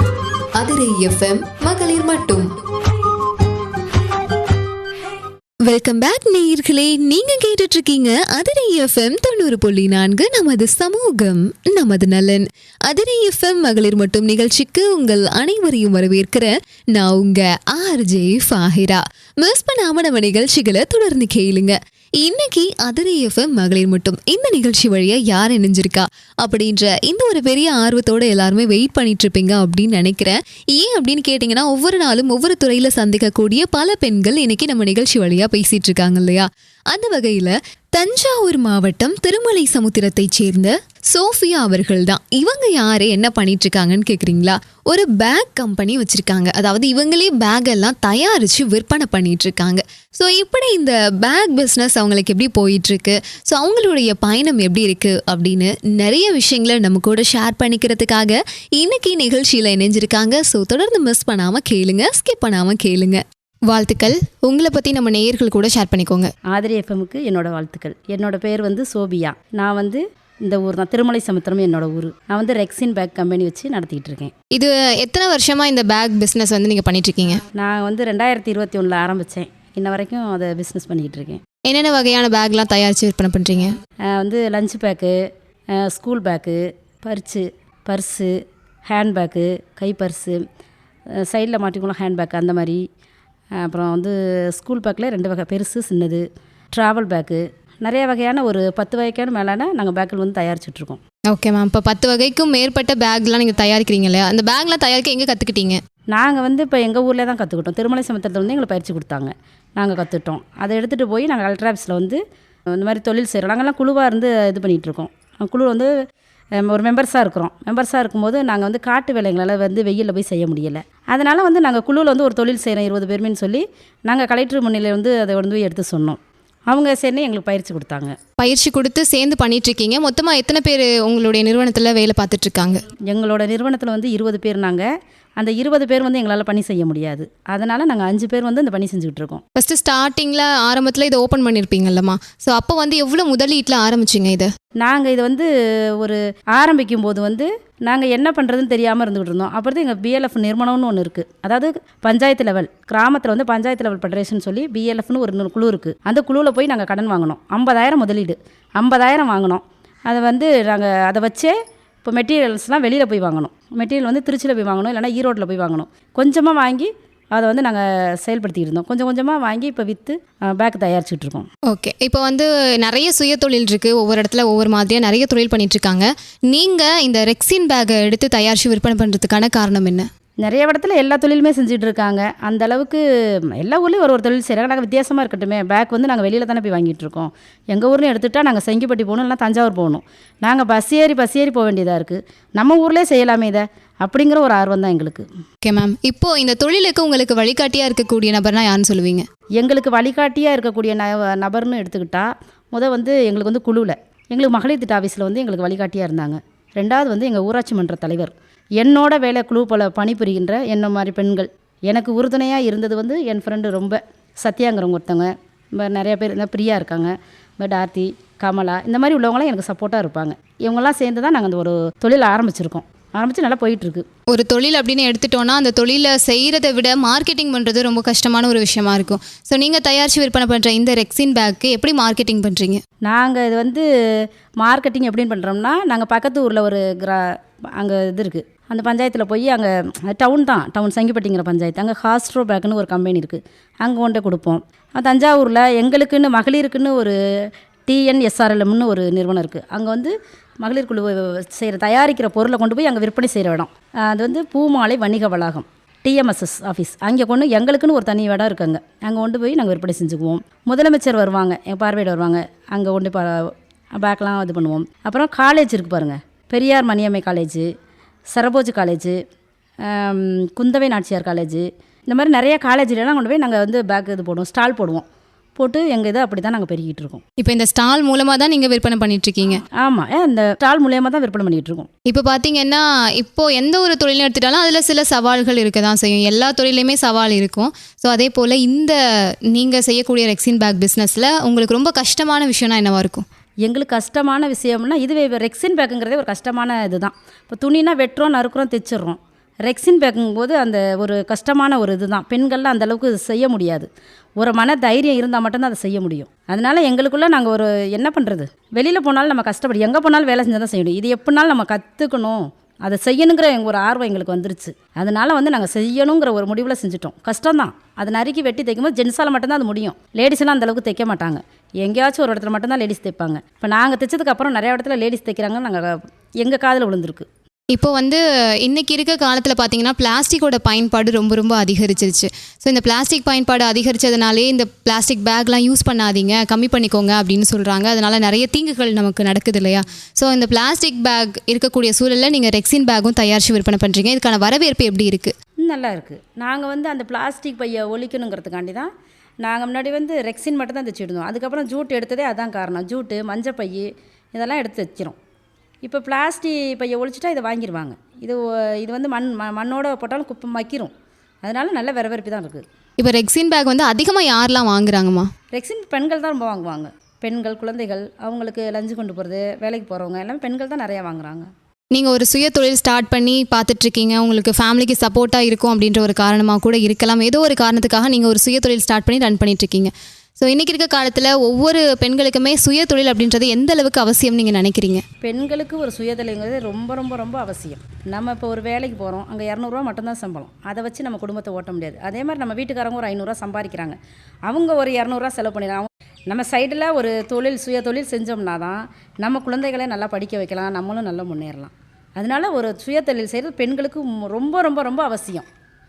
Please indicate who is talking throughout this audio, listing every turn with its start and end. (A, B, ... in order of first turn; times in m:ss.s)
0:00.6-0:02.5 A
0:05.7-1:03.2 A
1:03.7-1:06.3 B
1:06.5-1:14.3 C
1:14.5-1:17.4 B
1:17.6-1:21.4 C
1:21.7-1:23.8 B
1:24.1-1:25.2 C
1:25.8-1:28.3 C
1:28.9-1:30.4 C
1:31.2-1:32.8 C
1:33.6-1:41.0 C
1:41.3-1:45.8 B
1:46.1-1:52.2 C
1:52.8-1:55.9 C
1:56.6-2:06.2 C
2:06.7-2:08.1 C
2:08.4-2:12.8 B
2:13.1-2:14.9 C
2:15.4-2:19.4 C
2:19.6-2:24.5 B
2:24.8-2:51.5 C
2:51.7-3:00.1 B
3:00.4-3:15.3 C
3:15.6-3:19.3 B
3:19.6-3:44.0 C
3:44.3-3:52.8 B
3:53.1-3:53.8 C
3:54.6-4:07.2 C
4:07.9-4:27.7 C
4:28.3-4:29.2 C
4:29.8-4:35.0 C
4:35.6-4:37.2 C
4:37.4-4:39.6 B
4:39.8-4:41.9 C
4:42.1-4:49.0 B
4:49.5-4:53.2 B
4:53.6-5:27.3 C
5:27.7-5:45.3 B
5:45.6-5:48.9 C
5:49.4-5:55.2 C
5:55.8-6:00.9 C
6:01.4-6:02.6 C
6:03.0-6:05.3 B
6:05.5-6:11.5 C
6:11.9-6:25.0 B
6:25.2-6:45.5 C